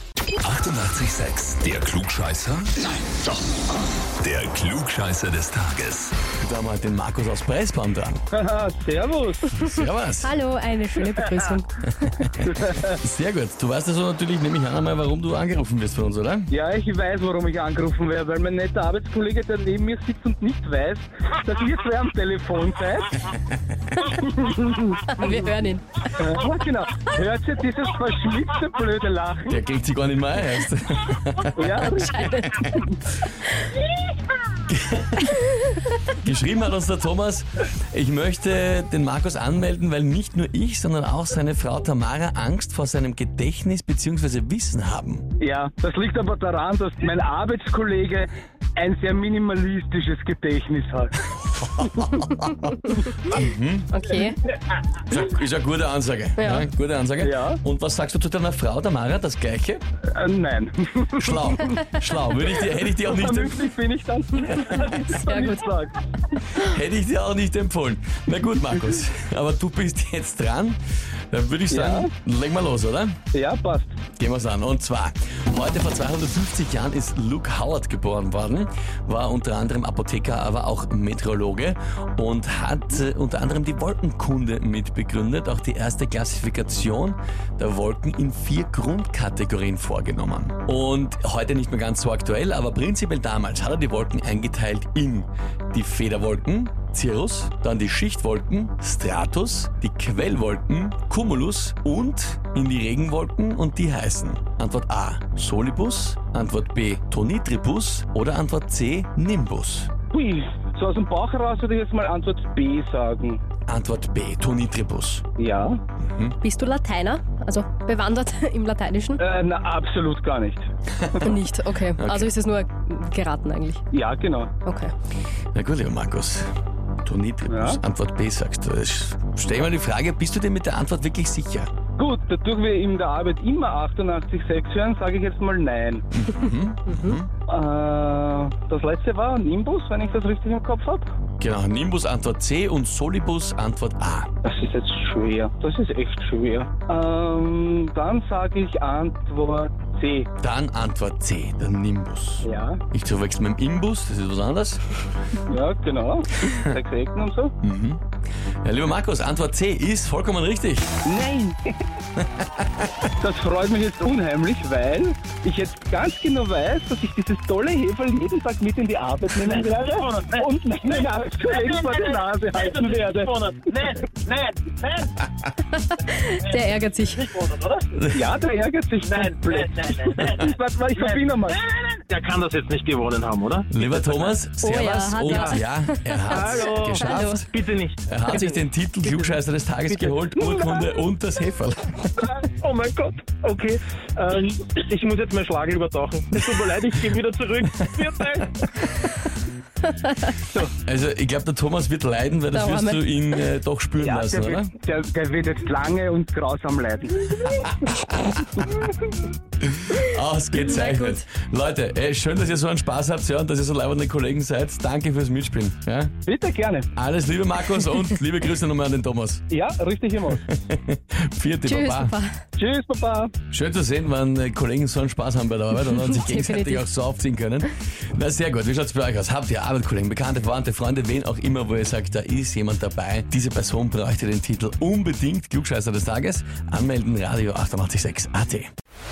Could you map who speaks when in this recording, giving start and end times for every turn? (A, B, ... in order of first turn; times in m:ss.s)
0:00.4-0:02.8 A
0:04.2-0:06.2 A
0:06.4-0:08.2 B
0:08.3-0:09.6 C
0:09.6-0:10.3 B
0:10.2-0:12.1 D
0:11.8-0:16.5 B
0:12.4-0:13.0 C
0:16.5-0:23.3 C
0:24.0-0:25.3 C
0:25.1-0:26.2 D
0:26.2-0:29.6 C
0:29.5-0:32.7 B
0:31.6-0:33.0 C
0:32.1-0:32.6 D
0:34.7-0:35.4 B
0:36.1-0:45.3 B
0:45.4-0:51.9 C
0:51.6-0:52.7 B
0:53.2-0:54.0 B
0:53.9-0:54.4 D
0:55.1-0:59.8 B
0:56.4-0:56.7 D
0:57.2-0:57.6 C
1:00.1-1:01.6 C
1:01.2-1:03.7 B
1:03.0-1:06.0 C
1:04.7-1:05.2 B
1:05.2-1:05.6 D
1:06.5-1:10.8 B
1:11.3-1:13.2 B
1:11.7-1:12.1 C
1:13.3-1:14.0 C
1:14.2-1:49.9 B
1:50.1-1:53.4 C
1:53.7-1:55.2 B
1:55.4-1:55.8 C
1:56.0-1:56.4 B
1:56.4-1:59.2 D
1:59.2-2:00.7 C
2:01.0-2:01.4 B
2:01.2-2:03.8 D
2:02.0-2:02.3 B
2:03.9-2:04.5 C
2:04.6-2:04.9 D
2:05.6-2:06.5 B
2:07.0-2:11.7 B
2:07.5-2:07.8 C
2:12.0-2:16.0 C
2:16.1-2:17.3 B
2:16.9-2:17.2 D
2:17.5-2:21.1 C
2:21.4-2:24.3 B
2:24.4-2:30.3 C
2:30.4-2:34.8 B
2:32.4-2:32.8 C
2:35.5-2:37.5 C
2:37.6-2:38.0 B
2:38.6-2:41.0 B
2:41.0-2:41.8 C
2:42.4-2:43.0 B
2:43.2-2:53.8 C
2:49.3-2:55.3 E
2:55.8-2:57.3 D
2:56.4-2:58.0 E
2:58.1-3:01.6 C
2:59.0-3:04.3 E
3:03.7-3:12.1 B
3:04.6-3:07.4 D
3:05.2-3:05.6 E
3:06.3-3:08.0 E
3:08.3-3:09.4 D
3:10.4-3:10.9 C
3:12.4-3:18.6 E
3:20.1-3:20.4 D
3:20.8-3:24.7 B
3:22.5-3:23.1 D
3:24.0-3:27.6 C
3:27.6-3:28.4 B
3:28.6-3:28.9 C
3:29.7-3:36.1 B
3:30.6-3:31.2 D
3:36.3-3:36.9 C
3:37.0-3:39.4 B
3:39.5-3:40.4 C
3:40.3-3:42.2 B
3:41.7-3:42.4 D
3:42.6-3:43.3 C
3:43.5-3:58.7 B
3:45.9-3:46.9 D